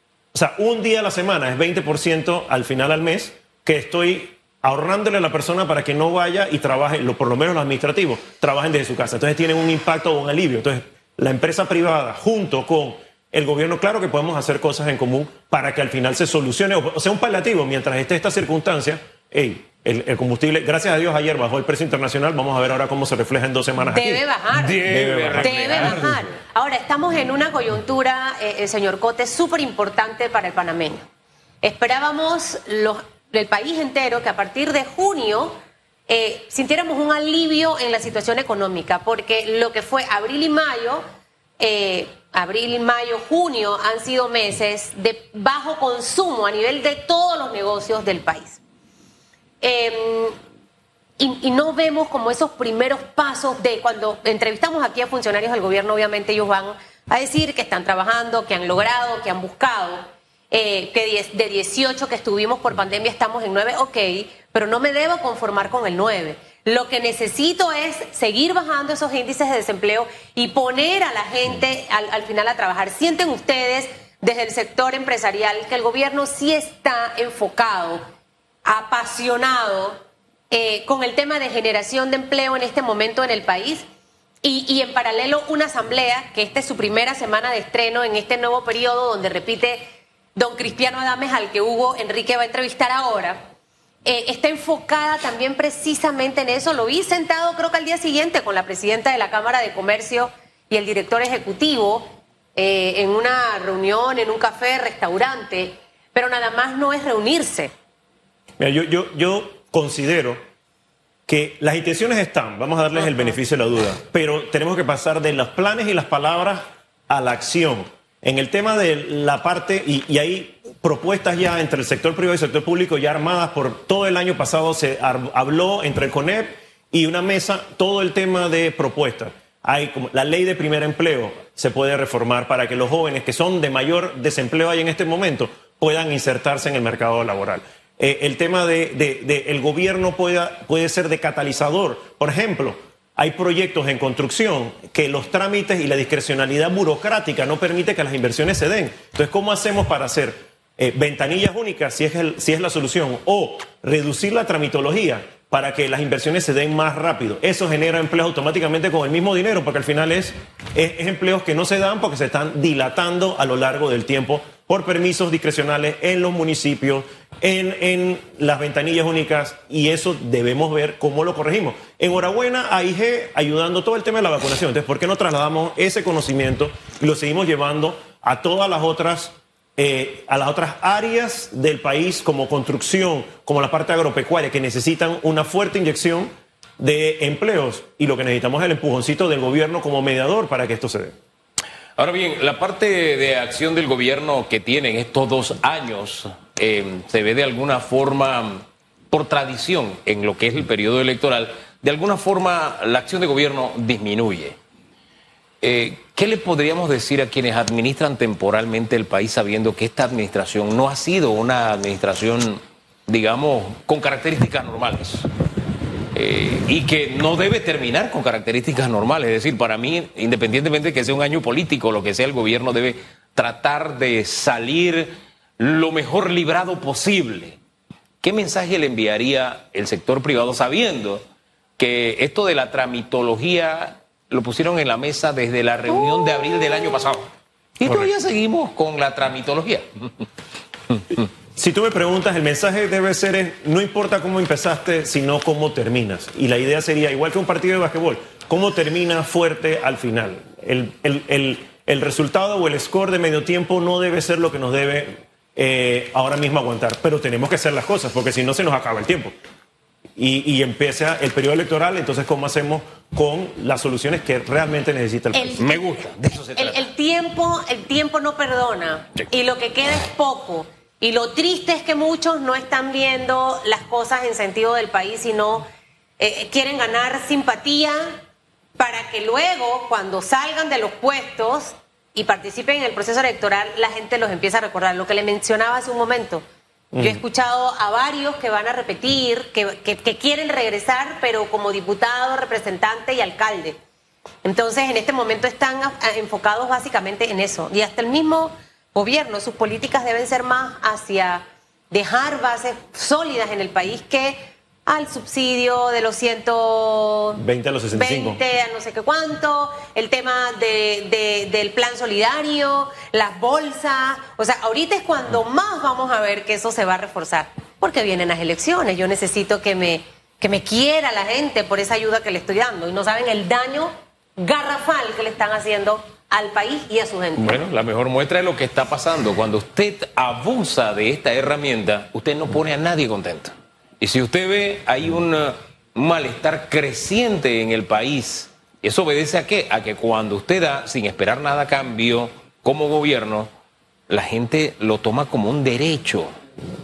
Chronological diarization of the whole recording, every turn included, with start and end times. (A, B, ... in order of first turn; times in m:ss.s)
0:00.3-0:24.2 A
0:23.9-0:24.8 B
0:24.5-0:26.3 C
0:24.8-0:26.2 A
0:25.3-0:31.0 B
0:31.6-0:35.5 B
0:36.1-0:41.0 B
0:41.6-0:48.6 B
0:49.6-0:50.3 B
0:51.2-1:00.0 B
1:00.5-1:18.0 B
1:18.6-1:20.0 B
1:20.5-1:23.8 B
1:24.4-1:29.8 B
1:30.3-1:33.4 B
1:34.0-1:47.7 B
1:48.6-1:50.4 A
1:51.3-3:11.1 A
1:53.0-1:53.3 B
3:12.0-3:24.6 C
3:25.6-3:35.3 C
3:36.1-3:47.6 C
3:48.2-3:51.2 C
3:51.8-3:57.3 C
3:57.8-4:00.2 C
3:57.8-3:58.1 A
4:01.6-4:19.3 A
4:20.2-4:25.6 A
4:25.3-4:25.9 B
4:25.6-4:26.8 C
4:26.5-4:35.6 B
4:36.2-4:38.1 B
4:38.8-4:46.4 B
4:46.9-4:47.2 A
4:47.0-4:53.8 B
4:54.4-5:07.4 B
5:07.4-5:08.4 A
5:07.9-5:27.6 B
5:27.4-5:43.5 C
5:44.1-5:46.3 C